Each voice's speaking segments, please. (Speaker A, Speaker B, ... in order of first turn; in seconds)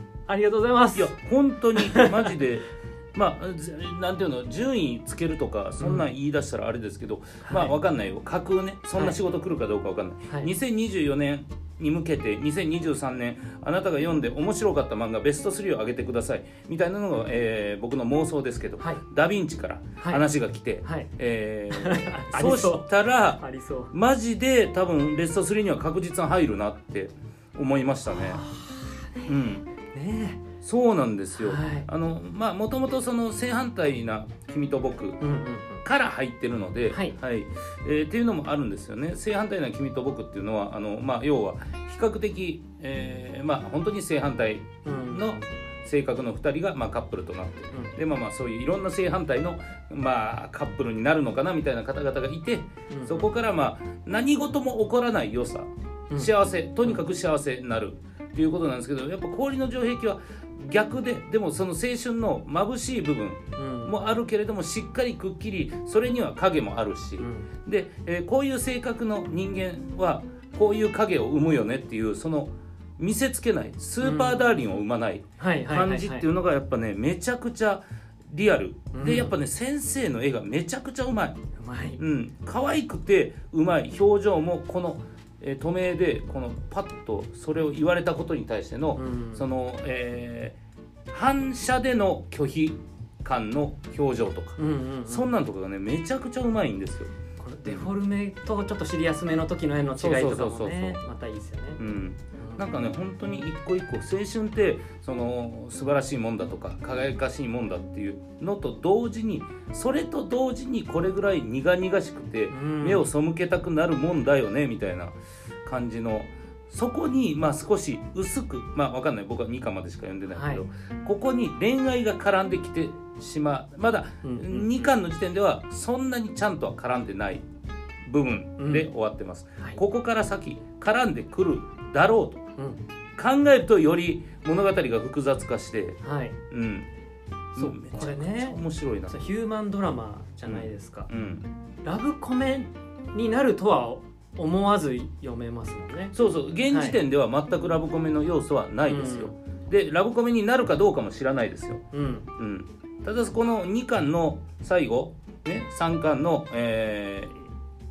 Speaker A: 0.3-1.1, 1.8-2.3, 5.8-6.1, 7.4-7.8, 20.8-21.1, 21.7-23.9, 28.1-29.3, 29.9-30.4, 31.4-31.9, 35.2-35.8, 36.9-37.2, 44.9-45.5, 47.7-48.0, 52.9-53.3, 63.6-64.0, 67.2-67.5, 74.0-74.4, 75.4-76.3, 78.9-79.3, 81.6-82.0, 89.0-89.5, 94.6-95.3, 97.4-101.8, 102.4-102.7, 112.5-113.1, 120.3-120.6, 124.2-124.9, 128.6-128.9, 132.6-132.8, 136.0-136.4, 137.6-141.1, 141.8-146.2, 146.7-147.0, 148.9-149.3, 151.9-152.3
Speaker B: 0.9-23.4, 23.9-28.4, 29.3-29.7, 30.6-35.2, 35.8-81.4, 82.0-90.6, 91.1-97.1, 97.7-97.9, 100.0-101.0, 101.8-127.4, 128.1-132.4, 133.2-136.0, 136.5-136.9, 137.6-139.1, 140.5-141.5, 146.1-151.8, 152.4-157.5